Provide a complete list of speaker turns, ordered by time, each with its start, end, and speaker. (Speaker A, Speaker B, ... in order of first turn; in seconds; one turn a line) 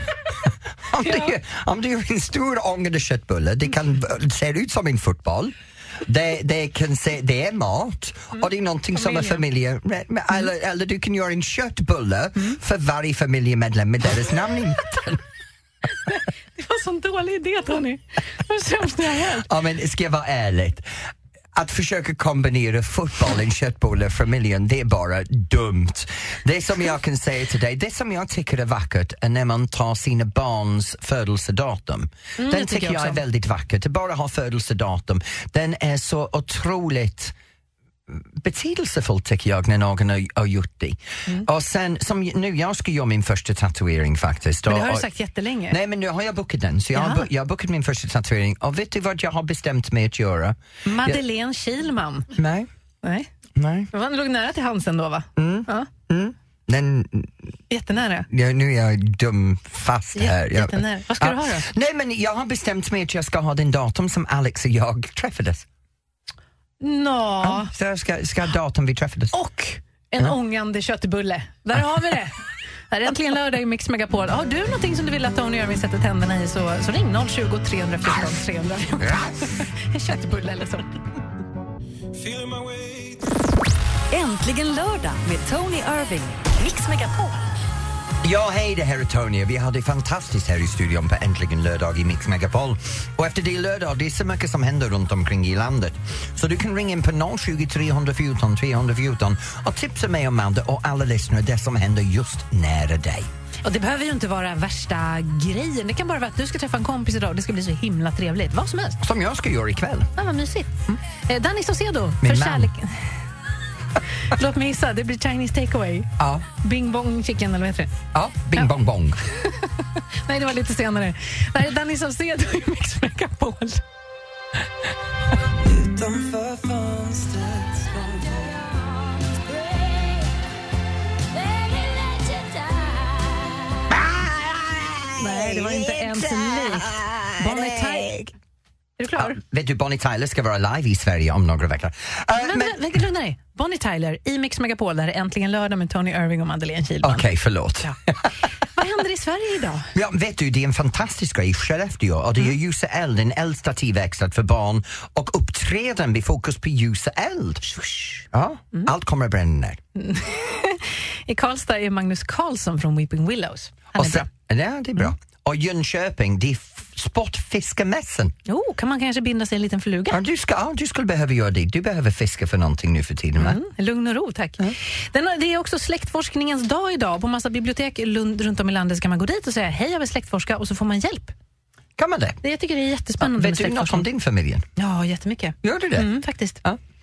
Speaker A: 0.9-15.2
Speaker B: 1.0-1.3
Speaker B: 8.3-9.4
Speaker B: 16.1-19.5
Speaker A: 19.3-20.9
Speaker A: 21.5-37.3
Speaker B: 32.4-33.2
Speaker A: 38.1-45.1
Speaker B: 44.7-45.8
Speaker A: 45.7-51.2
Speaker B: 46.9-47.3
Speaker B: 50.9-52.3
Speaker A: 52.3-52.7
Speaker B: 53.0-53.3
Speaker A: 53.5-53.9
Speaker B: 53.9-55.9
Speaker A: 55.4-57.3
Speaker B: 57.7-58.3
Speaker A: 58.3-65.7
Speaker B: 60.1-61.7
Speaker B: 66.8-67.7
Speaker A: 67.4-69.3
Speaker B: 69.3-81.0
Speaker A: 79.0-79.6
Speaker C: 82.2-83.2
Speaker D: 84.1-87.4
Speaker A: 88.2-103.3
Speaker B: 103.6-109.0
Speaker A: 109.0-110.1
Speaker B: 110.2-113.1
Speaker A: 112.2-112.7
Speaker B: 114.3-117.9
Speaker A: 116.2-116.4
Speaker A: 118.1-119.2
Speaker B: 119.4-119.7
Speaker B: 120.2-123.8
Speaker A: 125.9-127.4
Speaker C: 126.0-126.7
Speaker C: 127.8-128.8
Speaker C: 129.6-129.9
Speaker C: 131.4-133.6
Speaker A: 133.9-138.3
Speaker B: 135.2-138.2
Speaker B: 139.0-139.4
Speaker A: 139.2-142.8
Speaker B: 142.4-147.2
Speaker A: 147.0-148.3
Speaker B: 148.7-149.9
Speaker A: 149.9-157.7
Speaker B: 157.7-158.9
Speaker A: 158.3-159.8
Speaker B: 159.9-164.3
Speaker A: 163.9-168.3
Speaker B: 168.5-170.2
Speaker A: 170.1-173.6
Speaker B: 173.4-181.3
Speaker A: 182.0-182.4
Speaker B: 182.4-184.1
Speaker A: 183.2-184.6
Speaker B: 184.8-186.6
Speaker A: 185.6-186.1